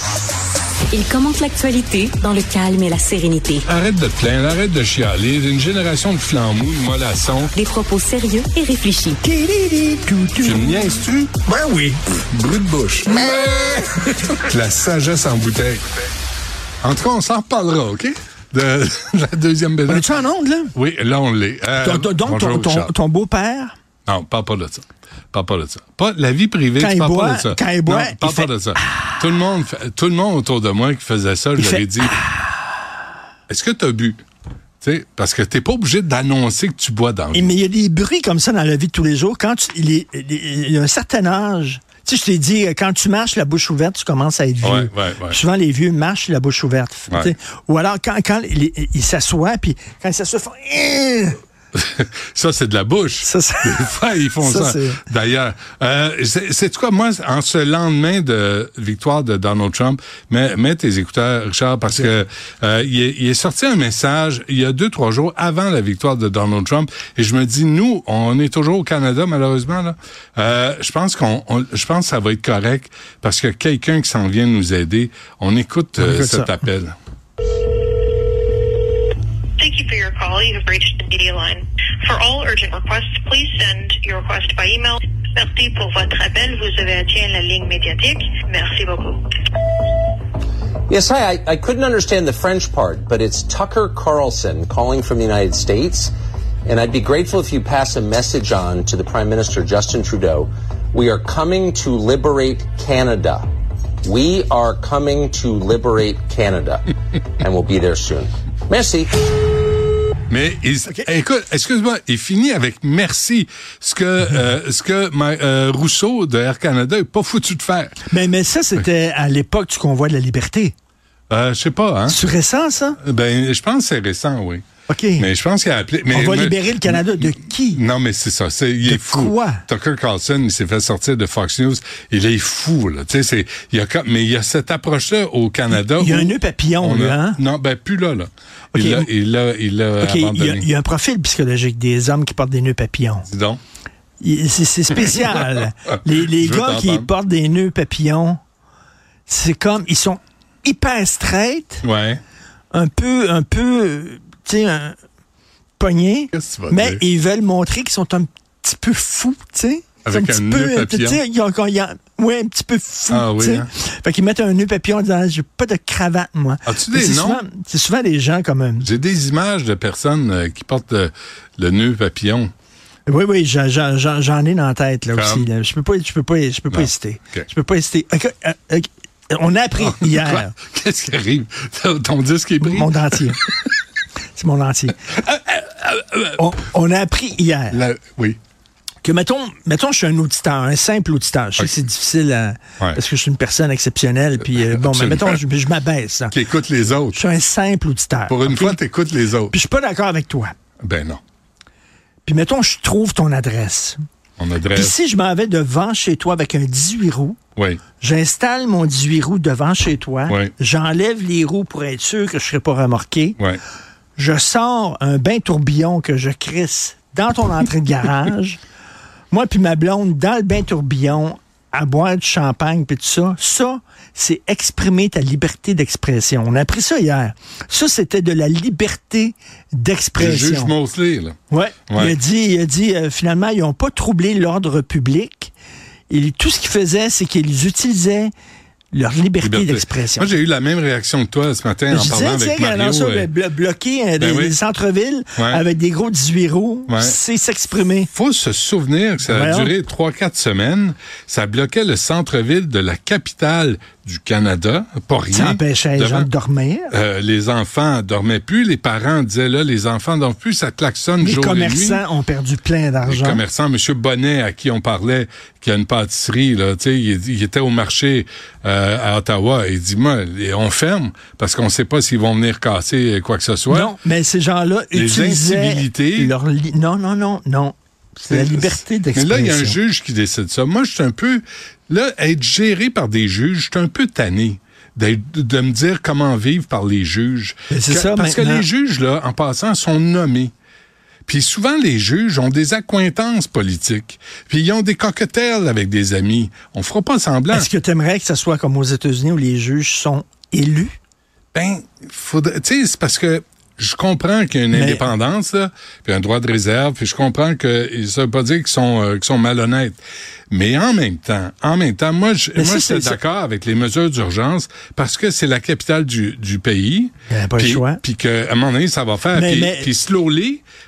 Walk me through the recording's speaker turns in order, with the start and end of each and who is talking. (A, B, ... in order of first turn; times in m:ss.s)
0:00.9-0:03.6 A
0:03.6-0:07.5 B
0:07.5-0:09.2 A
0:09.2-0:10.8 C
0:10.4-0:11.3 B
0:11.4-0:12.0 C
0:12.3-0:15.8 B
0:16.8-0:20.0 B
0:19.9-0:20.7 C
0:20.7-0:22.9 B
0:21.8-0:23.7 C
0:24.1-0:32.2 B
0:26.8-0:28.9 C
0:31.6-0:32.6 C
0:33.5-0:34.2 B
0:34.8-0:37.5 B
0:37.3-0:51.4 C
0:44.6-0:45.4 B
0:51.7-1:16.9 B
0:53.2-0:55.0 C
1:16.0-1:16.6 C
1:19.6-1:29.2 D
1:30.9-1:36.1 E
1:36.6-1:43.5 E
1:44.0-1:49.2 E
1:50.3-1:58.0 B
1:58.1-2:00.7 C
2:01.3-2:02.2 B
2:02.1-2:03.0 C
2:03.0-2:04.6 B
2:04.9-2:05.3 C
2:05.2-2:20.7 B
2:06.1-2:07.8 C
2:08.8-2:09.6 C
2:15.8-2:17.4 C
2:18.7-2:19.1 C
2:20.0-2:23.2 C
2:23.2-2:23.6 B
2:24.2-2:28.4 C
2:26.2-2:27.1 B
2:29.3-2:31.8 C
2:31.8-2:32.2 B
2:32.7-2:35.0 C
2:35.8-2:48.9 C
2:36.3-2:37.0 B
2:40.0-2:41.2 B
2:43.1-2:43.7 B
2:46.6-2:47.4 B
2:48.8-2:52.5 B
2:53.1-3:00.5 C
2:55.1-2:55.5 B
2:56.7-2:57.4 B
2:59.8-3:03.5 B
3:02.6-3:03.4 C
3:04.4-3:05.0 C
3:05.1-3:06.4 B
3:06.4-3:07.8 C
3:07.7-3:08.4 B
3:09.0-3:16.4 C
3:14.5-3:15.4 B
3:16.3-3:17.2 B
3:17.1-3:18.8 C
3:18.3-3:19.5 B
3:19.5-3:20.5 C
3:20.8-3:21.2 B
3:22.2-3:24.0 C
3:24.4-3:24.9 B
3:24.7-3:27.4 C
3:27.6-3:27.8 B
3:28.0-3:33.4 C
3:34.2-3:38.6 C
3:39.3-3:50.7 C
3:50.2-3:51.4 B
3:51.5-3:55.5 C
3:51.9-3:52.2 B
3:56.1-3:58.3 C
3:58.9-4:00.3 C
3:59.4-4:03.3 B
4:01.9-4:08.1 C
4:04.2-4:04.5 B
4:05.4-4:05.6 B
4:06.9-4:07.2 B
4:08.1-4:16.3 B
4:09.2-4:09.7 C
4:15.3-4:16.9 C
4:16.9-4:22.0 B
4:21.2-4:23.4 C
4:23.0-4:33.9 B
4:33.7-4:39.8 C
4:34.9-4:36.3 B
4:38.3-4:50.5 B
4:47.7-4:48.6 C
4:51.2-4:57.7 B
4:57.5-5:00.9 C
5:01.5-5:20.6 B
5:04.7-5:05.1 C
5:12.6-5:13.2 C
5:17.3-5:18.0 C
5:19.3-5:19.9 C